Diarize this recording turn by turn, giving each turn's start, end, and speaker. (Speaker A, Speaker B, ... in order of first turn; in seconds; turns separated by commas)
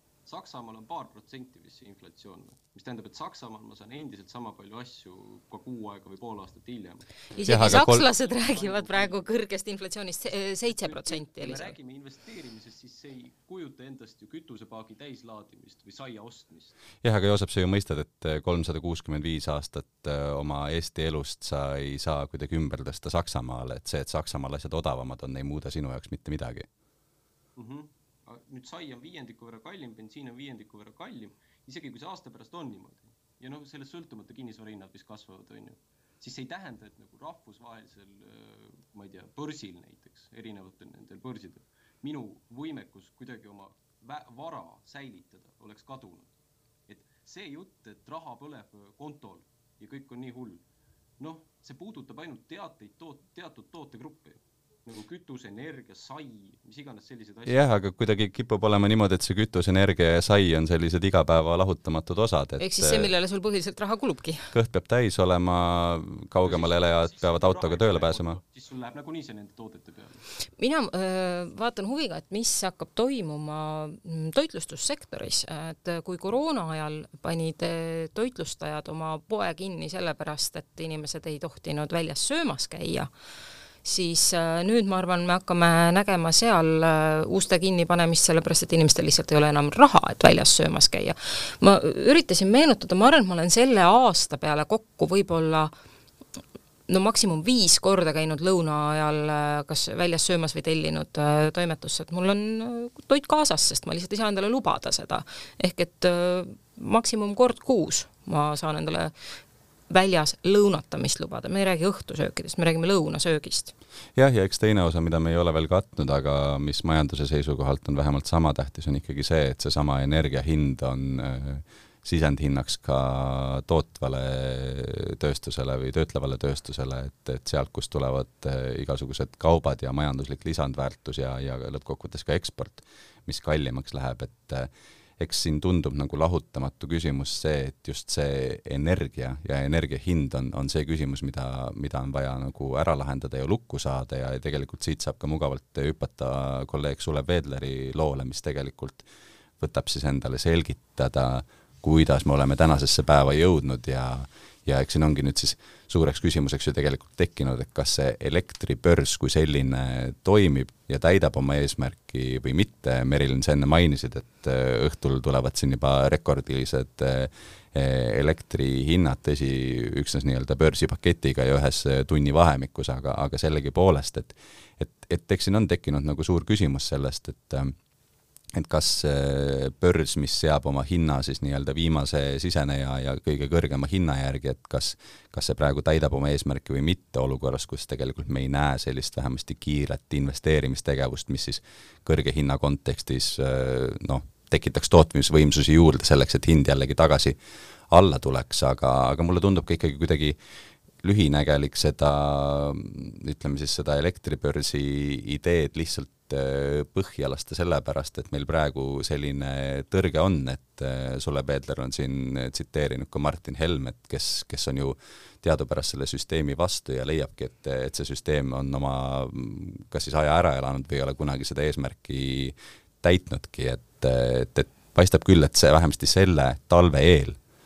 Speaker A: 0.3-9.2, Speaker B: 7.3-11.7, Speaker C: 7.5-8.0, Speaker A: 10.7-16.8, Speaker C: 17.0-26.7, Speaker A: 27.6-46.3, Speaker A: 46.9-50.6, Speaker A: 51.2-57.7, Speaker C: 57.5-63.1, Speaker B: 62.6-64.5, Speaker C: 64.5-68.4, Speaker A: 66.4-70.2, Speaker B: 70.6-83.1, Speaker B: 83.8-95.7, Speaker B: 96.9-109.1, Speaker B: 109.9-113.7, Speaker C: 114.2-149.1, Speaker C: 149.6-177.7, Speaker C: 178.5-197.4, Speaker C: 197.9-200.4, Speaker C: 201.0-227.4